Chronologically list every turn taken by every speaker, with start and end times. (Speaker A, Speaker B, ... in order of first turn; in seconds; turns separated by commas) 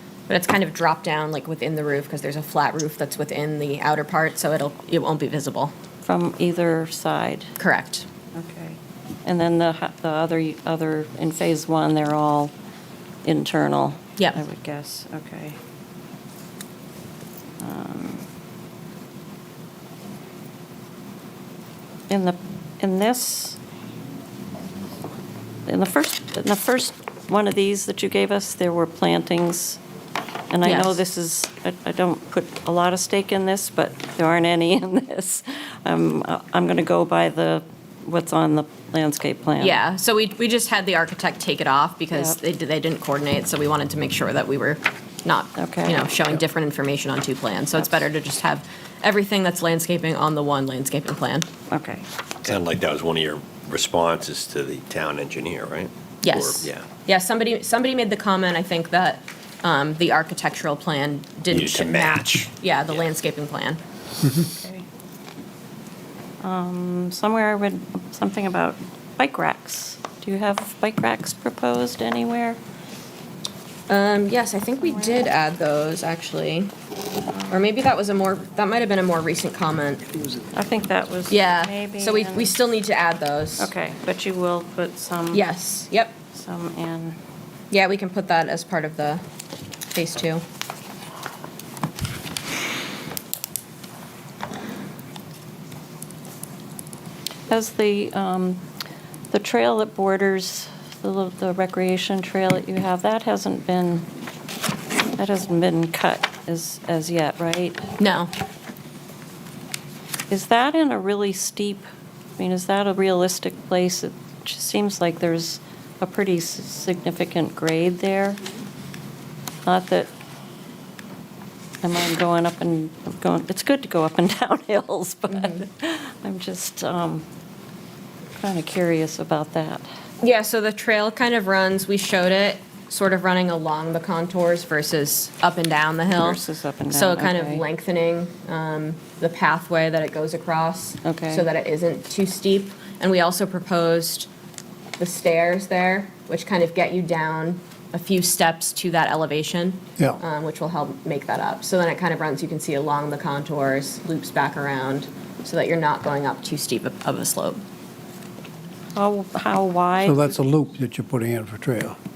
Speaker A: 0.3-5.7, Speaker B: 6.0-7.5, Speaker A: 7.6-8.1, Speaker B: 8.3-12.5, Speaker B: 13.2-15.6, Speaker B: 17.6-18.3, Speaker B: 22.1-23.6, Speaker B: 25.7-29.8, Speaker B: 30.5-39.8, Speaker A: 30.6-31.0, Speaker A: 39.6-51.5, Speaker B: 45.6-46.2, Speaker B: 51.7-52.0, Speaker C: 52.5-56.9, Speaker A: 56.2-63.8, Speaker C: 61.5-63.1, Speaker B: 64.4-64.8, Speaker B: 66.4-72.6, Speaker A: 73.9-76.7, Speaker B: 74.8-75.3, Speaker B: 77.3-77.7, Speaker A: 77.5-80.0, Speaker B: 80.5-82.5, Speaker A: 81.3-83.7, Speaker B: 83.6-85.5, Speaker A: 85.3-86.2, Speaker B: 86.3-87.2, Speaker A: 87.7-89.2, Speaker A: 89.9-90.4, Speaker B: 97.5-98.6, Speaker B: 99.3-104.1, Speaker B: 105.2-107.9, Speaker A: 108.0-108.3, Speaker B: 110.3-111.8, Speaker B: 112.4-118.4, Speaker B: 119.7-120.1, Speaker B: 121.8-127.2, Speaker A: 125.3-125.6, Speaker B: 128.4-129.9, Speaker A: 130.2-144.3, Speaker B: 136.1-137.6, Speaker B: 141.0-141.5, Speaker A: 145.0-157.6, Speaker B: 158.9-160.4, Speaker D: 160.0-162.0